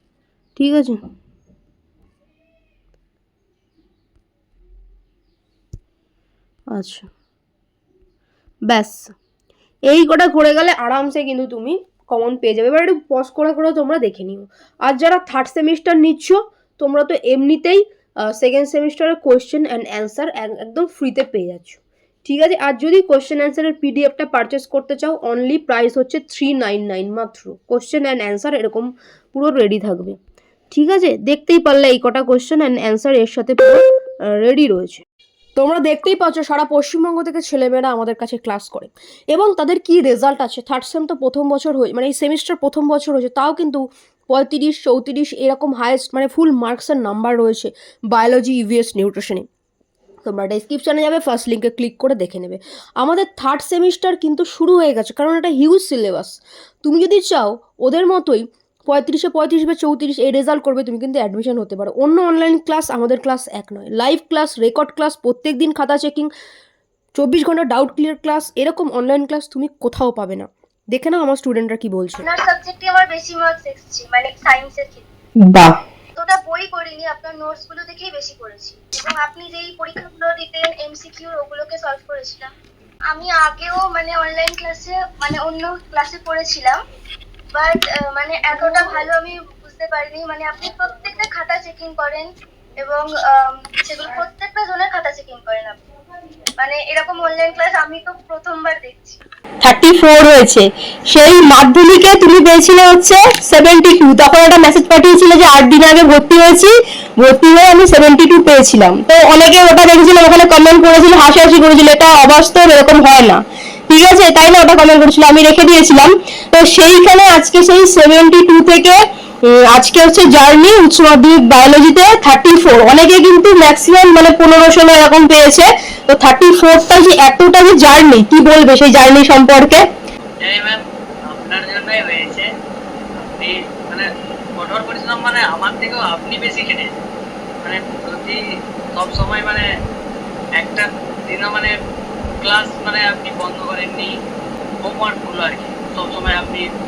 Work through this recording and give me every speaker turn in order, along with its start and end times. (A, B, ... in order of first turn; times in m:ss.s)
0:00.6-0:01.0 A
0:06.7-0:07.1 A
0:08.7-0:09.1 A
0:09.9-0:30.2 A
0:30.7-0:35.0 A
0:35.6-0:49.4 A
0:50.2-1:06.3 A
1:07.1-1:12.3 A
1:12.2-1:15.1 B
1:15.4-1:15.8 A
1:16.2-1:22.5 B
1:23.1-1:26.8 B
1:27.5-1:35.8 B
1:36.6-1:39.2 B
1:39.6-2:09.8 A
2:10.4-2:12.5 C
2:13.3-2:17.0 C
2:17.6-2:18.4 C
2:18.9-2:19.6 C
2:20.6-2:21.7 C
2:22.4-2:24.1 C
2:24.8-2:26.6 C